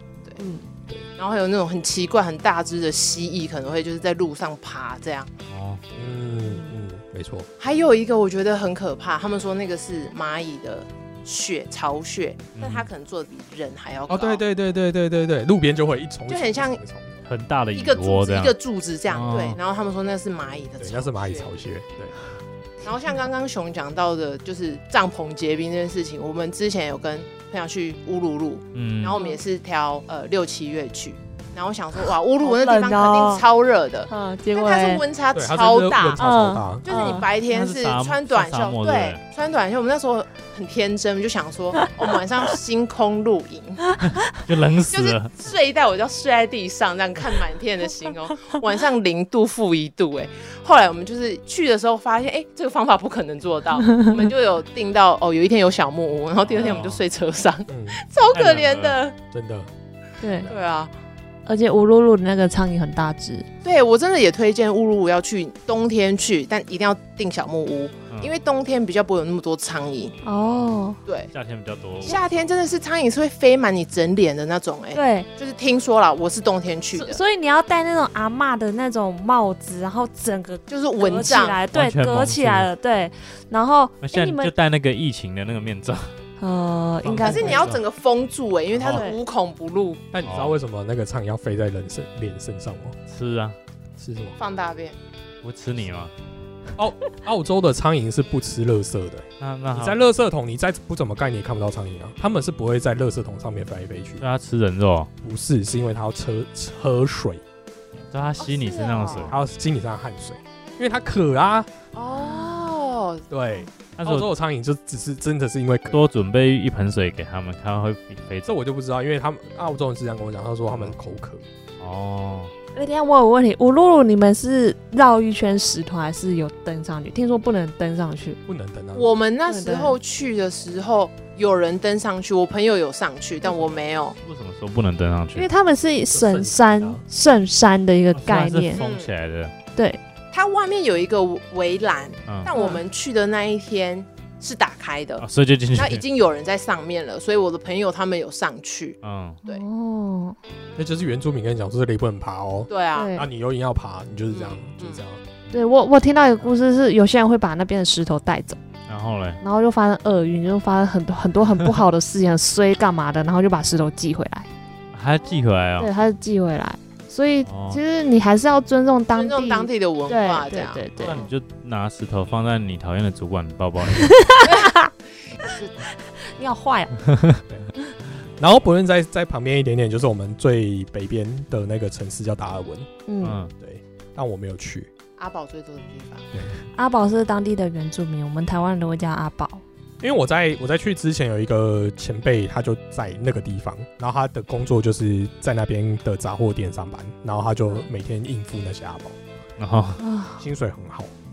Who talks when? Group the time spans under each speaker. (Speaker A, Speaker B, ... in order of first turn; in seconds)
Speaker A: 0.4-0.6, 6.4-6.7, 29.1-29.4, 32.4-33.4, 34.1-35.0, 36.2-37.3, 53.9-54.2, 60.2-60.5, 61.5-63.5, 70.2-71.0, 74.9-75.3, 76.9-84.5, 86.4-87.7, 88.9-89.2, 112.1-112.7, 122.7-128.4, 129.5-129.9, 133.4-133.8, 135.3-138.8, 142.5-142.8, 149.4-150.3, 152.9-153.3, 155.5-158.6, 159.4-164.5, 165.8-171.2, 173.8-174.9, 176.2-176.9, 183.1-183.4, 186.7-189.6, 200.0-200.4
Speaker B: 1.2-5.3, 7.6-14.4, 16.3-16.8, 17.7-21.5, 22.8-36.2, 36.8-44.0, 44.9-59.1, 60.4-60.9, 63.6-70.2, 72.0-77.2, 80.7-81.6, 87.1-90.0, 94.4-95.0, 108.4-109.4, 111.9-113.3, 128.9-134.2, 138.7-139.1, 140.3-149.6, 152.7-153.1, 154.3-155.0, 169.1-171.3, 174.4-174.7, 175.3-175.7, 185.2-186.3
Speaker C: 5.5-5.8, 12.6-12.9, 17.2-18.5, 19.1-19.6, 28.7-29.2, 37.5-39.2, 44.3-45.4, 56.5-57.0, 58.3-59.0, 71.3-72.5, 81.7-82.7, 84.0-86.1, 87.0-87.8, 88.7-89.0, 90.2-90.5, 93.1-93.5, 95.4-96.1, 99.4-100.0, 104.2-105.1, 108.1-109.3, 114.0-114.3, 115.9-118.5, 120.7-121.0, 121.8-122.5, 134.2-135.5, 138.1-139.5, 145.2-146.0, 149.0-149.4, 158.9-159.4, 164.9-165.9, 167.4-167.8, 171.0-174.1, 177.0-177.4, 183.2-183.5, 199.6-200.0
Speaker D: 5.9-7.5, 14.1-17.2, 20.8-22.1, 35.3-36.9, 57.7-58.0, 59.3-59.7, 90.1-93.0, 94.0-94.4, 96.8-104.2, 105.2-107.4, 109.3-111.7, 113.3-116.0, 118.4-121.4, 128.5-129.1, 136.1-137.0, 150.8-155.2, 178.4-182.9, 183.6-184.9, 190.0-199.2, 200.4-201.1